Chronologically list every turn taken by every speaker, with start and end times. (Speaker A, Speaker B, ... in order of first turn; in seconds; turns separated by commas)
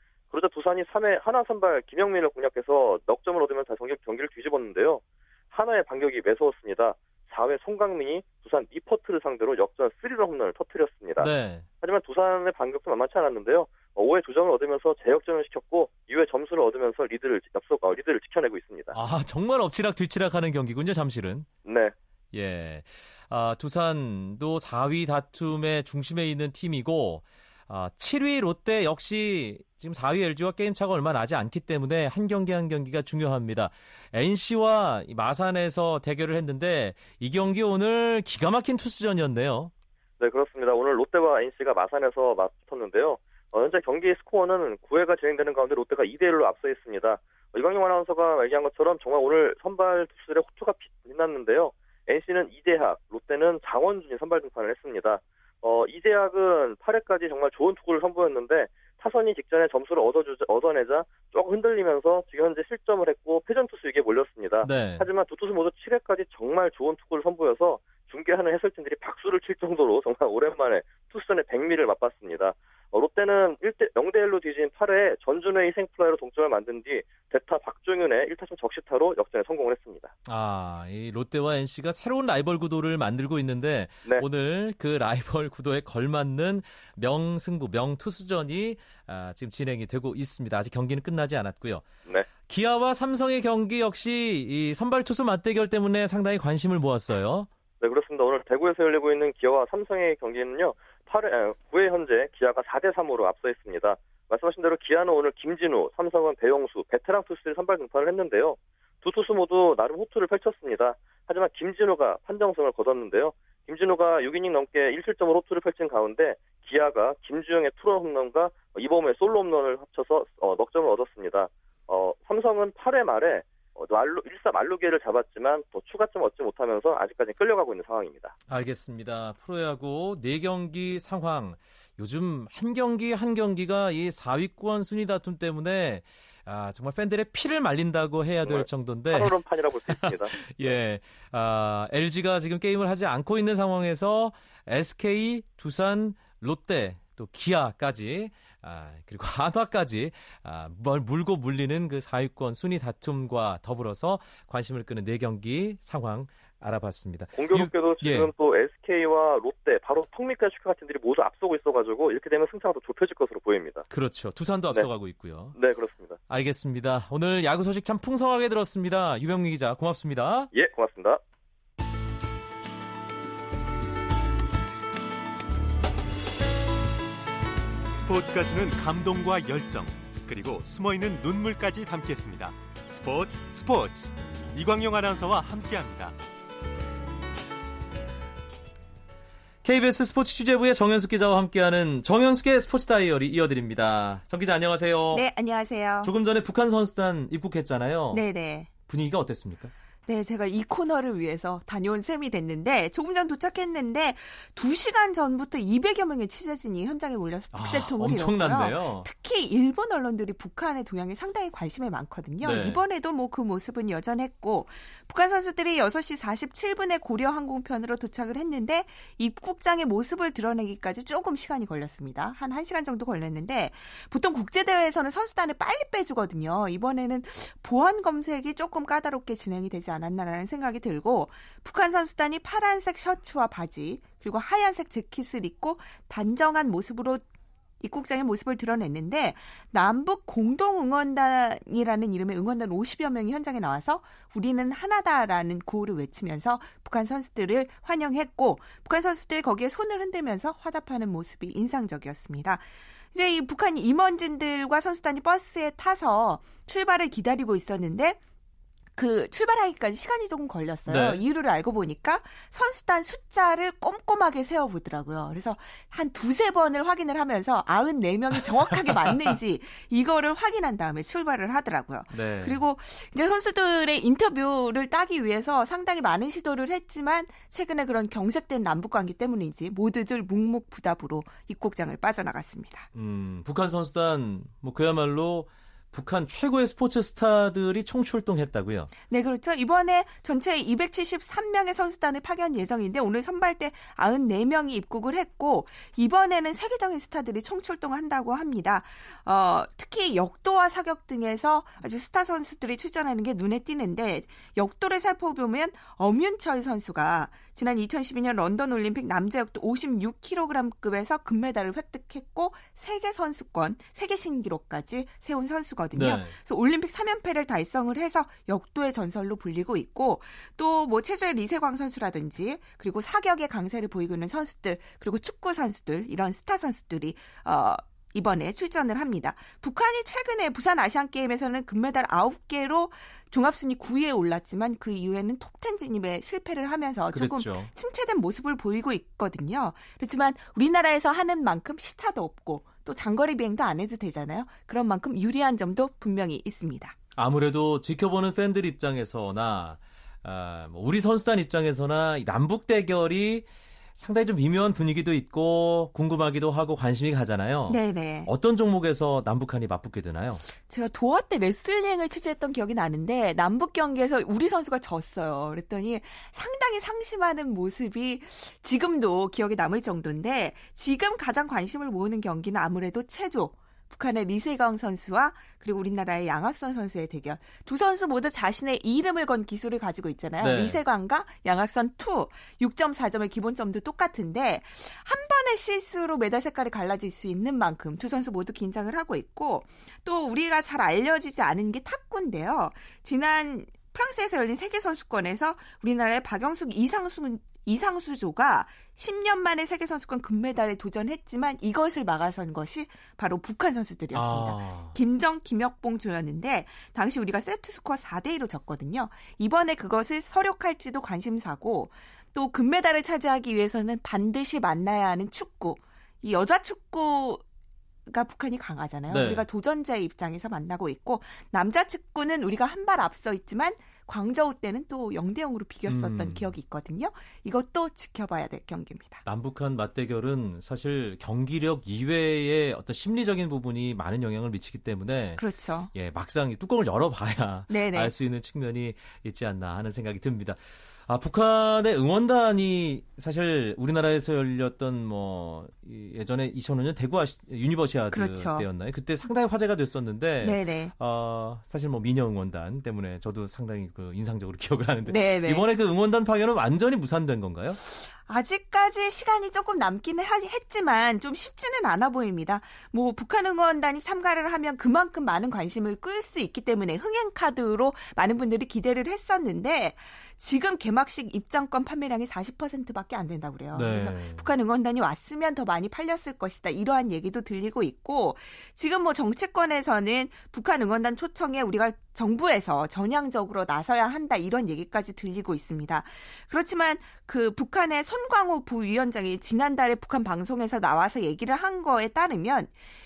Speaker A: 0.3-11.3, Speaker B: 11.2-11.7, Speaker A: 11.8-18.9, Speaker B: 18.9-21.5, Speaker A: 21.6-21.9, Speaker B: 22.3-39.7, Speaker A: 40.2-80.1, Speaker B: 64.6-65.1, Speaker B: 80.3-91.9, Speaker B: 92.4-97.5, Speaker A: 97.8-128.3, Speaker B: 128.5-139.4, Speaker A: 138.4-140.8, Speaker B: 139.9-158.3, Speaker A: 157.3-163.8, Speaker B: 163.9-165.6, Speaker A: 165.6-166.2, Speaker B: 166.3-170.5, Speaker A: 170.5-171.2, Speaker C: 177.9-186.2, Speaker B: 189.6-195.2, Speaker D: 195.1-196.1, Speaker B: 196.0-198.2, Speaker D: 198.1-198.7, Speaker B: 198.9-199.7, Speaker D: 200.1-237.2, Speaker B: 207.5-209.1, Speaker B: 212.4-212.8, Speaker D: 237.8-258.2, Speaker D: 259.0-282.9, Speaker B: 260.9-261.2, Speaker B: 272.1-272.6, Speaker B: 282.9-288.9, Speaker D: 289.1-346.9, Speaker B: 315.9-316.3, Speaker B: 337.1-337.7, Speaker B: 347.2-353.5, Speaker B: 354.0-360.4, Speaker D: 357.7-358.3, Speaker D: 360.7-417.4, Speaker B: 380.4-380.8, Speaker B: 404.1-405.0, Speaker D: 418.1-429.2, Speaker B: 419.1-419.5, Speaker B: 425.9-426.5, Speaker B: 429.2-435.4, Speaker D: 435.4-435.9, Speaker B: 435.9-457.8, Speaker D: 437.7-438.1, Speaker D: 448.1-448.7, Speaker D: 450.4-450.9, Speaker D: 455.1-455.6, Speaker D: 457.9-492.8, Speaker B: 473.7-474.5